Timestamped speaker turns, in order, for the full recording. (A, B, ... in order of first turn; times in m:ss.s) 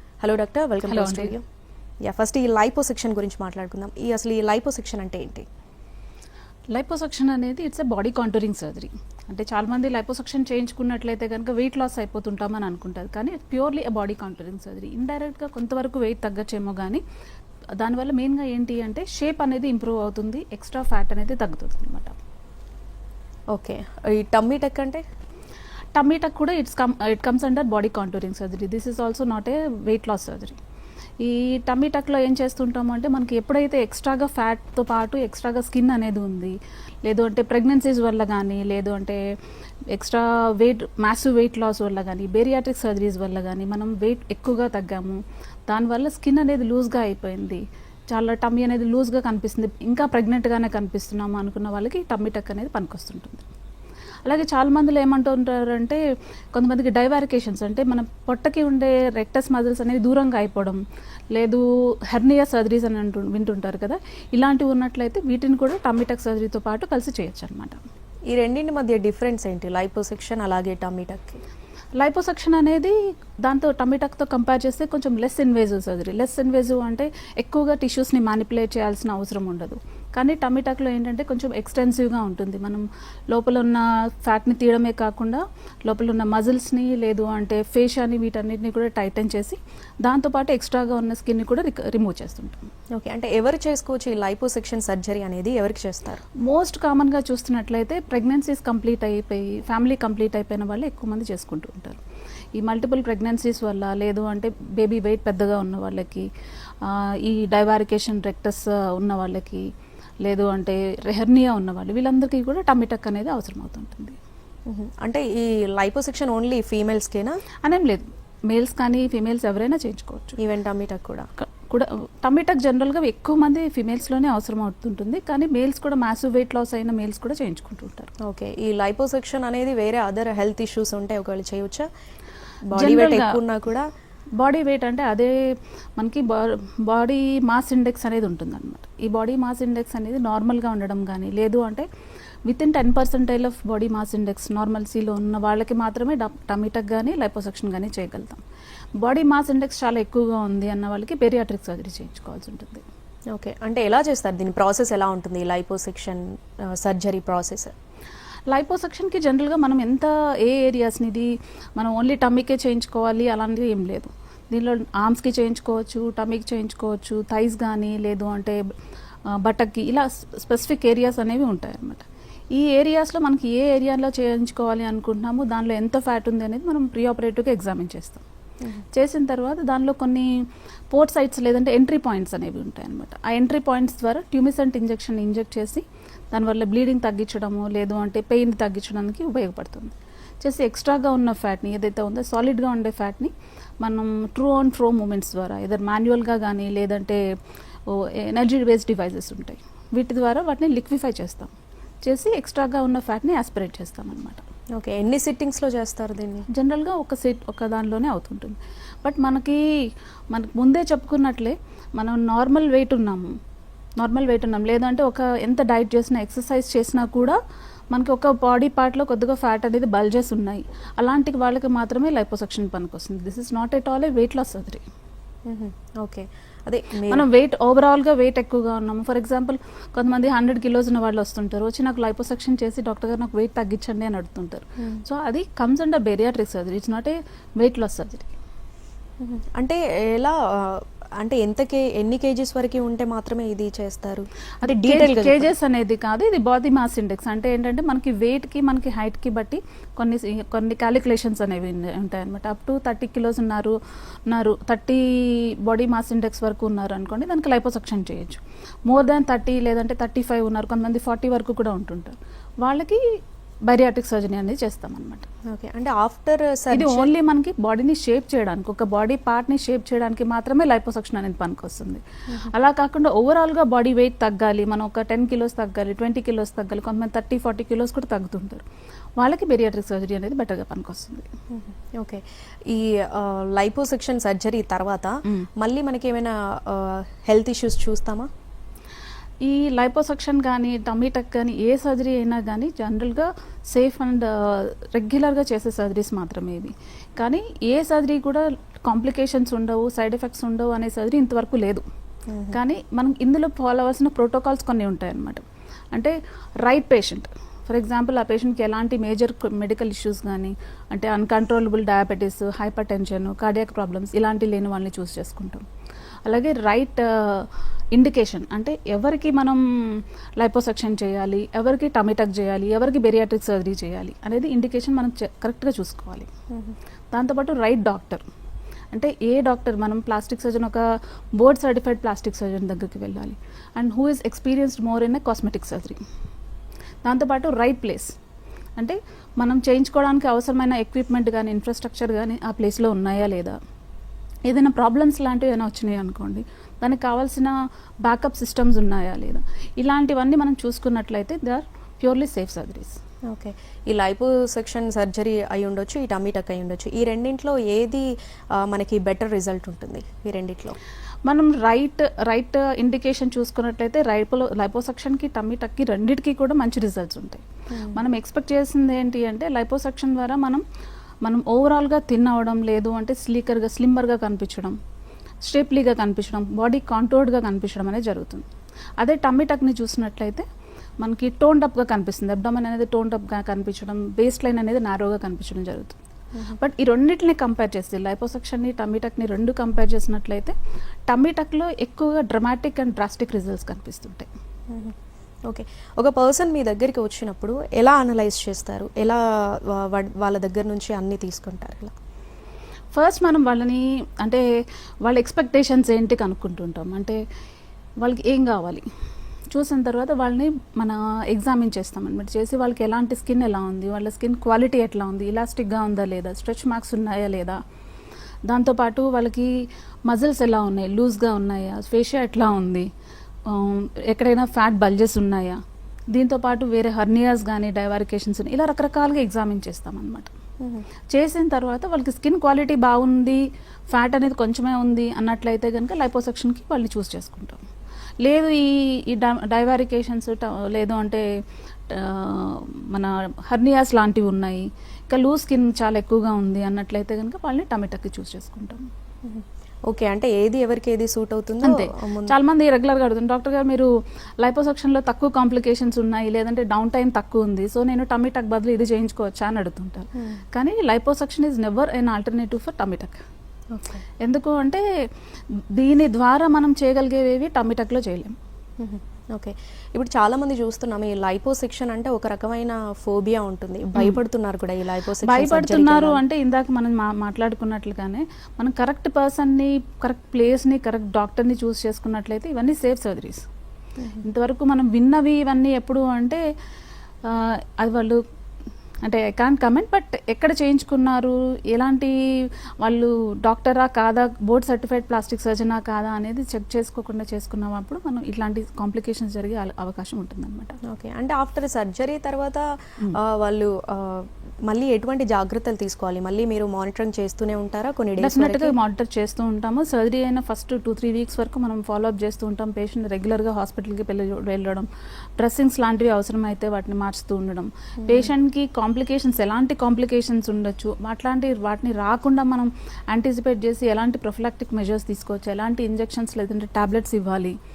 0:00.2-0:01.4 A
0:00.9-0:01.3 B
0:02.0-0:05.5 A
0:06.7-0:17.0 B
0:17.8-0:22.1 B
0:23.5-0:25.0 A
0:26.0-0:30.6 B
0:31.2-0:39.2 B
0:39.9-0:53.4 B
0:54.2-0:56.0 B
0:56.5-1:07.8 B
1:08.3-1:11.4 A
1:12.0-1:32.6 B
1:32.9-1:36.2 A
1:36.4-1:42.0 B
1:42.6-1:46.3 B
1:46.8-1:49.7 B
1:50.2-1:54.2 B
1:54.7-1:57.4 A
1:57.6-2:00.4 B
2:00.4-2:01.3 A
2:01.4-2:08.1 B
2:08.2-2:11.9 A
2:12.7-2:13.9 A
2:12.7-2:13.4 B
2:14.4-2:21.9 B
2:22.5-2:28.4 B
2:29.0-2:32.8 B
2:33.3-2:37.7 A
2:38.5-2:48.6 B
2:49.3-2:58.2 B
2:58.9-3:00.3 B
3:00.9-3:17.2 B
3:17.9-3:21.5 B
3:22.0-3:24.4 B
3:24.8-3:26.5 A
3:26.5-3:33.4 B
3:34.0-3:37.4 B
3:37.9-3:44.8 B
3:45.5-3:47.3 A
3:47.1-3:58.3 B
3:59.2-4:05.5 A
4:04.6-4:13.8 B
4:14.3-4:25.3 B
4:25.5-4:27.1 A
4:26.7-4:38.6 B
4:39.2-4:41.3 B
4:41.5-4:48.3 A
4:49.4-5:01.8 B
5:02.3-5:02.6 A
5:02.5-5:05.4 B
5:05.9-5:15.6 B
5:16.3-5:26.3 B
5:26.5-5:26.8 A
5:27.1-5:28.2 B
5:28.9-5:30.8 B
5:31.4-5:36.0 B
5:37.0-5:38.1 B
5:38.8-5:43.6 B
5:44.5-5:53.0 B
5:53.3-6:00.8 A
6:01.3-6:10.6 B
6:07.7-6:08.0 A
6:11.2-6:14.8 B
6:15.4-6:18.4 B
6:19.0-6:20.4 B
6:21.0-6:26.0 B
6:26.6-6:30.5 B
6:31.1-6:34.3 B
6:34.7-6:41.9 A
6:42.9-6:44.4 B
6:45.0-6:47.2 B
6:48.0-6:48.8 B
6:49.5-6:57.6 B
6:58.5-7:02.9 B
7:03.5-7:05.6 B
7:06.1-7:10.3 B
7:11.1-7:17.6 B
7:18.2-7:21.3 B
7:21.9-7:28.9 B
7:29.2-7:32.3 A
7:31.6-7:43.2 B
7:40.2-7:40.4 A
7:43.7-7:44.0 A
7:44.2-7:44.8 B
7:45.8-7:48.4 B
7:48.8-7:56.2 A
7:55.2-8:03.4 B
8:04.2-8:06.4 B
8:07.2-8:08.2 B
8:09.0-8:20.8 B
8:20.9-8:28.8 A
8:28.2-8:34.9 B
8:35.4-8:47.6 B
8:38.0-8:38.3 A